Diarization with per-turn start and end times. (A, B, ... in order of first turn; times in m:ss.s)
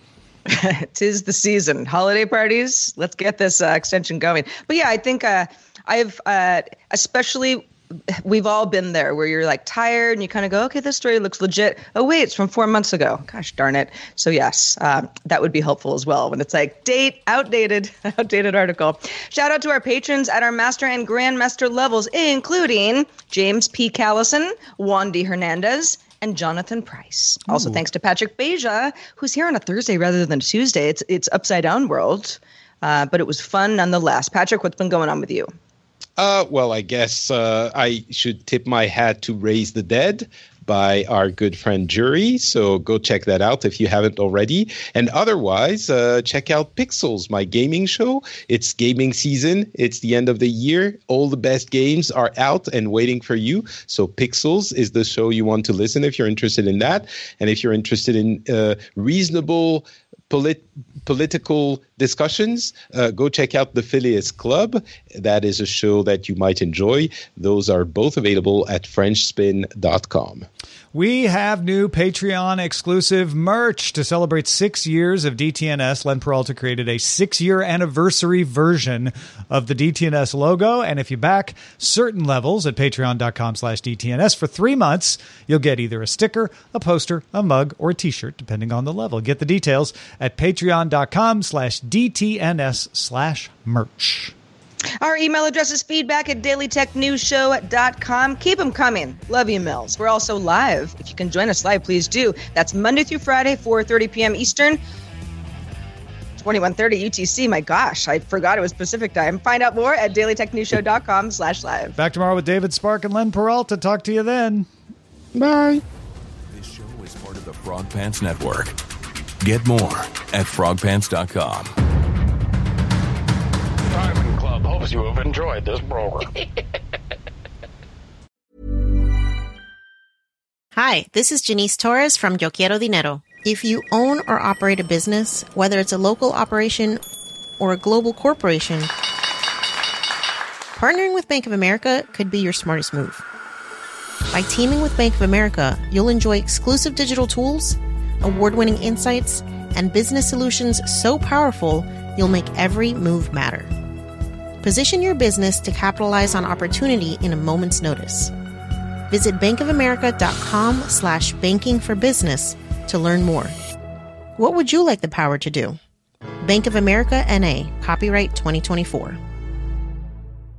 0:00.5-0:35.5 A
0:27.5-0:27.8 B
0:36.2-1:10.5 B
1:10.9-1:34.3 C
1:35.0-1:44.8 A
1:46.4-1:52.0 A
1:52.0-1:54.7 C
1:55.4-1:55.8 B
1:56.5-1:58.8 D
1:59.4-2:01.8 D
2:03.9-2:06.3 E
2:10.8-2:17.0 F
2:17.6-2:18.9 F
2:20.8-2:23.2 F
2:24.3-2:33.7 F
2:34.6-2:38.3 F
2:39.1-2:43.6 F
2:44.4-2:45.8 F
2:46.4-2:49.2 F